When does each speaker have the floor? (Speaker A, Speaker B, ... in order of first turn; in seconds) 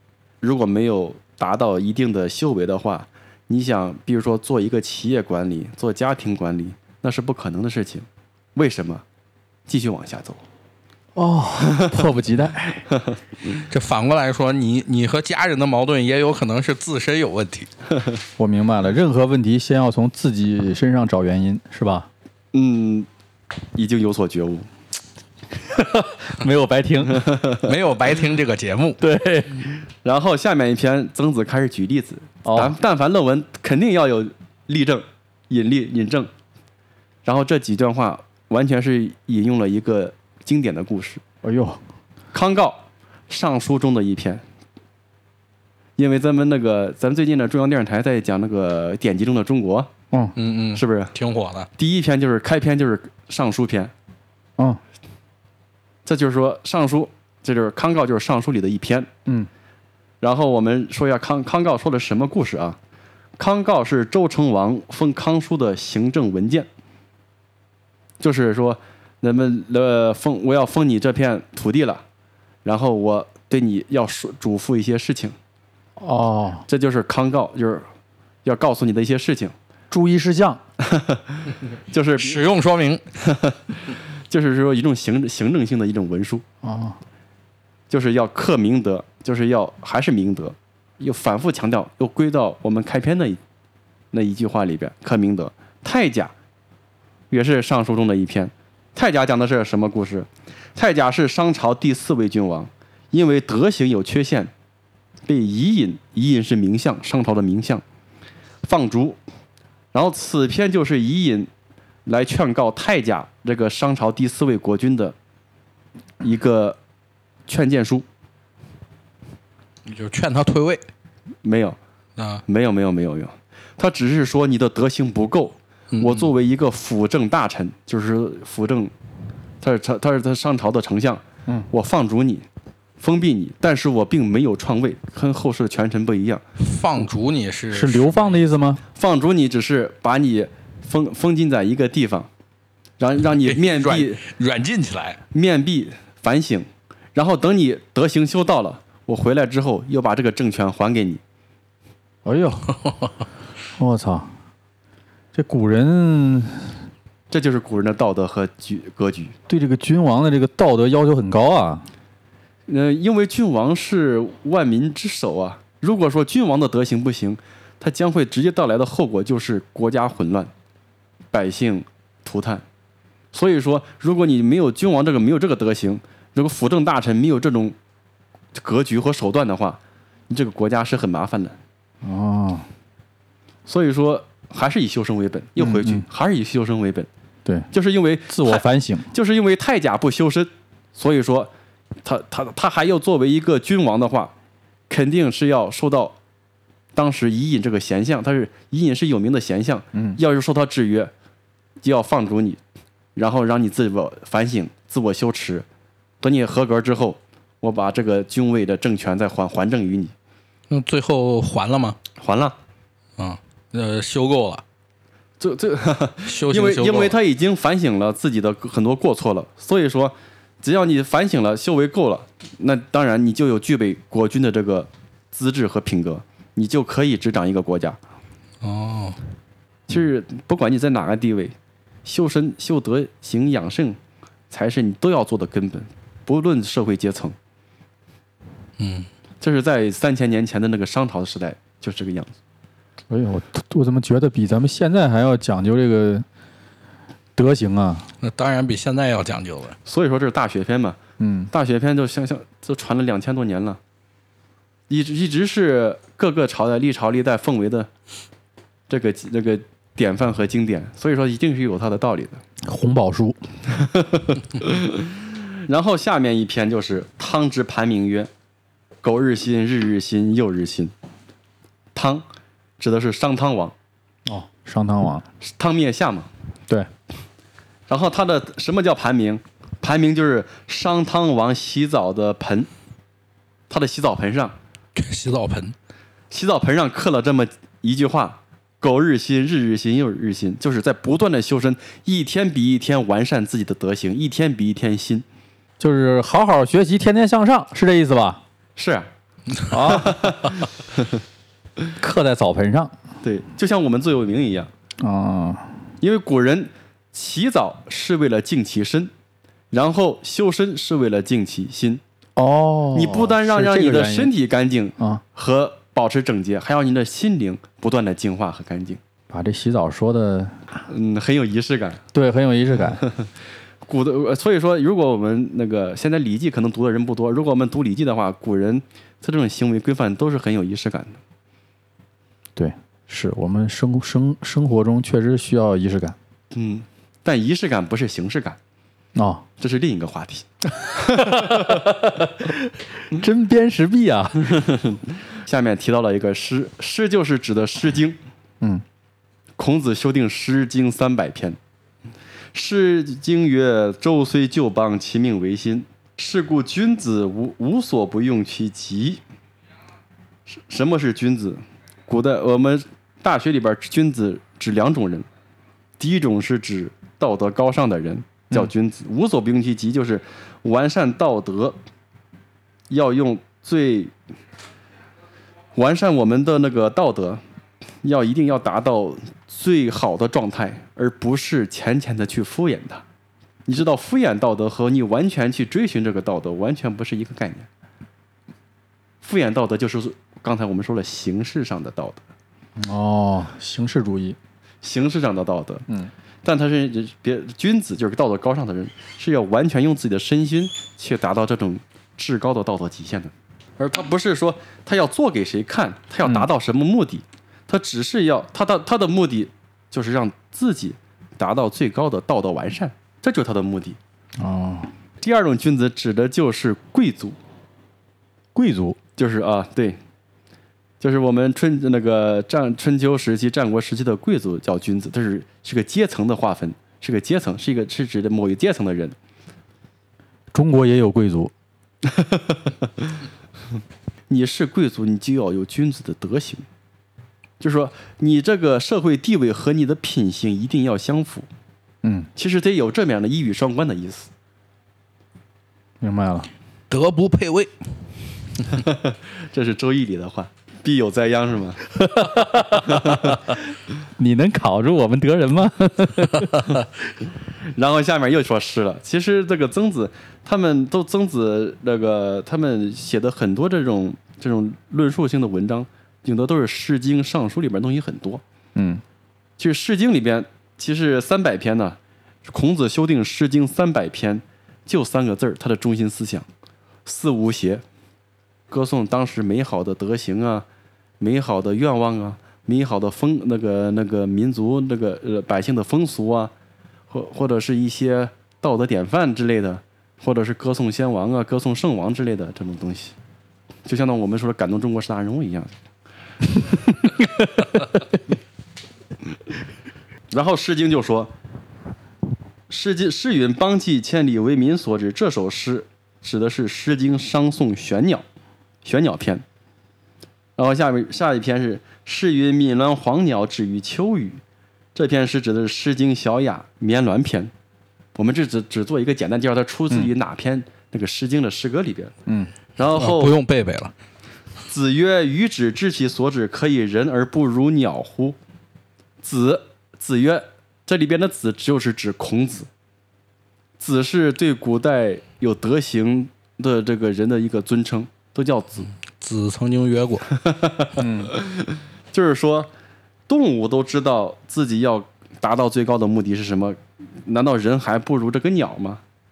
Speaker A: 0.4-9.0, 9.7-10.4, 11.7-12.0, 22.5-23.1, 23.8-24.7, 27.1-27.7, 30.0-36.3, 37.2-41.2, 42.3-44.4, 46.0-49.9, 50.7-51.1, 51.8-53.9, 56.1-59.1, 60.2-62.8, 63.4-66.7, 68.2-72.0, 72.7-75.4, 76.7-77.9, 78.5-79.5, 80.8-82.4, 83.2-86.4, 87.9-93.4, 94.1-96.3, 97.3-104.5, 105.3-107.8, 108.7-109.2, 109.9-111.5, 112.1-115.2, 116.2-116.8, 117.5-118.0, 121.4-121.8, 122.5-128.9, 129.6-132.5, 133.0-136.4, 138.9-142.3, 143.0-144.2, 145.3-151.2, 157.3-159.3, 162.7-170.5, 171.3-172.6, 173.3-177.8, 178.6-181.6, 183.7-187.1, 187.7-191.5, 192.0-194.3, 194.9-196.2, 196.9-201.1, 201.8-202.6, 203.2-205.7, 206.2-210.1, 212.2-212.6, 215.4-228.0, 229.9-231.5, 232.1-234.0, 234.5-237.3, 239.4-242.3, 249.9-251.0, 251.5-253.8, 254.9-257.9, 258.9-262.4, 263.7-268.3, 269.0-270.9, 271.9-272.2, 272.8-273.7, 275.4-276.3, 277.9-282.7, 283.7-284.6, 286.3-295.2, 298.8-299.1, 299.9-301.1, 303.2-304.7, 306.0-309.1, 309.7-312.0, 312.9-319.0, 320.9-322.0, 323.9-331.2, 336.5-338.6, 339.6-341.9, 344.5-348.2, 349.6-351.6, 352.5-359.2, 360.5-365.3, 366.0-371.8, 372.9-374.1, 375.8-377.4, 378.0-383.0, 383.7-387.7, 389.2-392.2, 394.8-395.9, 396.4-414.0, 415.2-417.4, 419.2-420.0, 421.0-429.1, 432.0-433.1, 434.3-436.6, 437.6-441.5, 442.4-444.3, 448.7-451.9, 452.9-453.4, 457.7-468.4, 469.6-476.5, 477.1-477.8, 478.7-480.7, 481.2-486.5, 487.1-493.1, 493.9-495.7, 500.3-501.3, 502.7-508.2, 508.8-509.4, 510.6-514.4, 515.0-517.5, 518.2-522.1, 522.8-523.4, 524.7-528.4, 529.2-532.7, 533.8-538.9, 540.3-542.7, 543.3-549.0
Speaker B: 11.2-12.9, 18.4-22.1, 25.7-27.3, 29.0-29.7, 32.5-32.8, 41.4-41.8, 76.0-76.7, 79.9-80.6, 86.6-87.0, 137.7-138.8, 152.2-152.7, 153.8-154.3, 155.3-156.7, 159.5-161.9, 182.0-182.7, 185.6-186.1, 188.3-189.1, 243.1-246.2, 247.4-248.1, 251.2-251.5, 262.6-263.4, 274.3-275.2, 295.8-298.4, 299.7-300.4, 302.0-302.9, 305.0-305.7, 312.4-314.3, 319.3-320.7, 322.1-323.1, 332.6-336.2, 339.2-339.4, 341.0-344.6, 392.8-394.4, 414.4-414.9, 418.6-419.0, 430.5-431.5, 442.0-442.3, 446.0-446.5, 452.0-453.4, 454.2-456.7, 468.8-469.0, 541.0-541.3
Speaker C: 13.7-17.7, 27.5-29.0, 50.4-51.7, 82.2-83.1, 119.8-120.8, 122.2-122.4, 125.9-126.3, 136.6-138.4, 143.4-145.2, 210.7-212.0, 213.2-214.6, 216.3-217.2, 228.6-229.2, 238.8-239.1, 248.2-249.8, 284.9-285.8, 446.9-447.7, 522.9-523.9, 539.1-540.3